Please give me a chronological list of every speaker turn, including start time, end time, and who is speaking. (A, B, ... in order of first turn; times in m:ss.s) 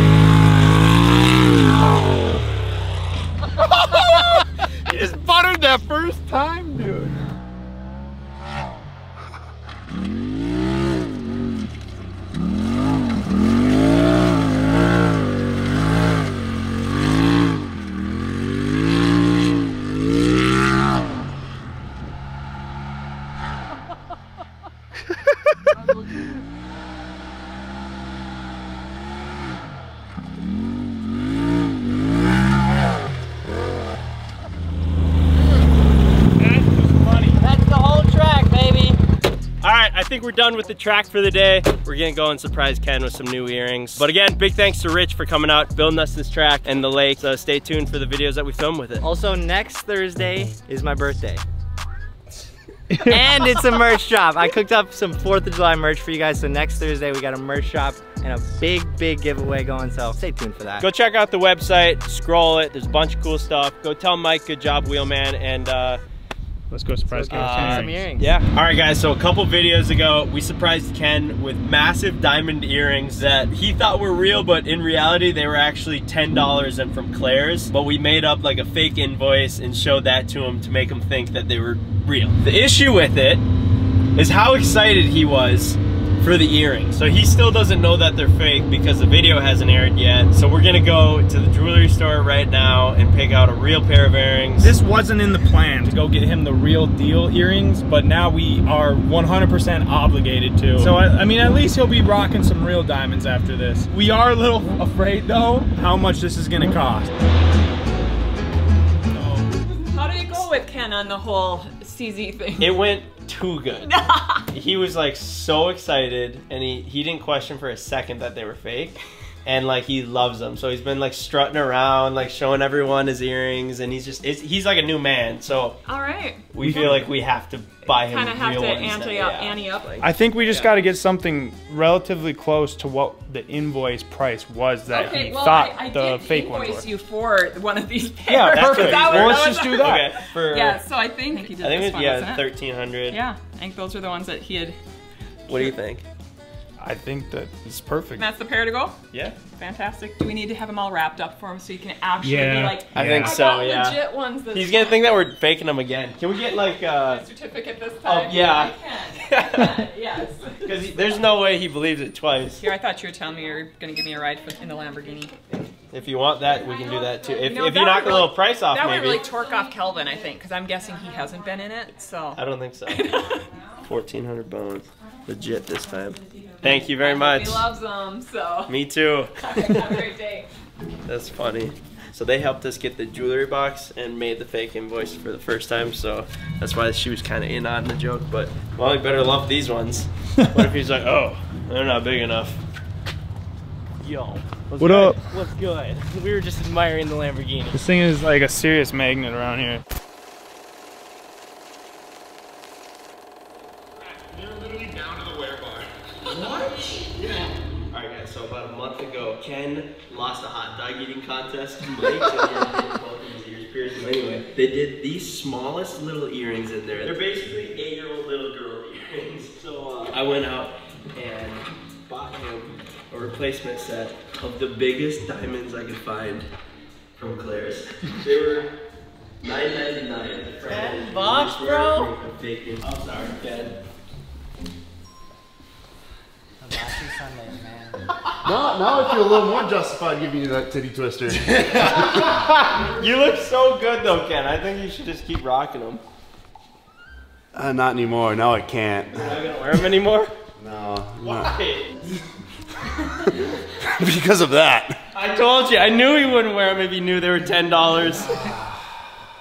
0:03.6-0:07.2 A
0:36.4-0:37.4 B
0:37.4-0:39.0 C
0:39.6-0:49.0 D
0:49.0-0:51.4 C
0:52.9-0:53.2 B
0:53.0-1:00.9 C
1:00.8-1:06.0 D
1:06.7-1:08.0 B
1:07.1-1:08.4 C
1:07.3-1:23.4 D
1:24.2-1:34.7 D
1:34.6-1:47.1 B
1:49.1-1:49.4 B
1:49.9-1:52.8 E
1:52.6-1:53.9 D
1:53.8-1:54.5 E
1:54.5-2:05.8 D
2:05.8-2:07.0 E
2:06.5-2:10.7 D
2:06.6-2:07.0 B
2:07.8-2:10.0 E
2:10.0-2:16.9 B
2:14.9-2:22.4 E
2:18.5-2:20.8 D
2:19.2-2:19.9 B
2:21.4-2:23.2 D
2:23.1-2:24.8 E
2:25.5-2:26.0 D
2:25.5-2:25.8 E
2:26.8-2:28.3 B
2:28.2-2:35.2 E
2:29.1-2:29.4 D
2:32.2-2:33.4 B
2:32.9-2:37.3 D
2:36.5-2:41.1 E
2:38.0-2:39.8 D
2:40.6-2:42.6 D
2:42.6-2:45.4 E
2:45.9-2:49.3 D
2:46.7-2:53.4 E
2:52.4-2:53.3 D
2:53.8-2:57.7 D
2:56.6-2:58.7 E
2:58.7-3:00.0 D
2:59.4-3:00.5 E
3:01.1-3:12.6 D
3:14.0-3:17.8 D
3:14.8-3:15.2 B
3:17.7-3:19.8 B
3:24.0-3:25.9 A
3:26.3-3:26.9 D
3:27.2-3:27.5 A
3:27.9-3:46.5 D
3:47.2-3:48.7 D
3:49.4-3:53.8 D
3:50.7-3:52.1 C
3:56.6-3:58.0 C
3:58.4-4:02.3 F
4:01.6-4:06.0 D
4:07.5-4:09.4 F
4:09.2-4:10.3 D
4:10.6-4:11.5 F
4:11.2-4:11.9 D
4:13.8-4:15.0 F
4:15.1-4:18.5 D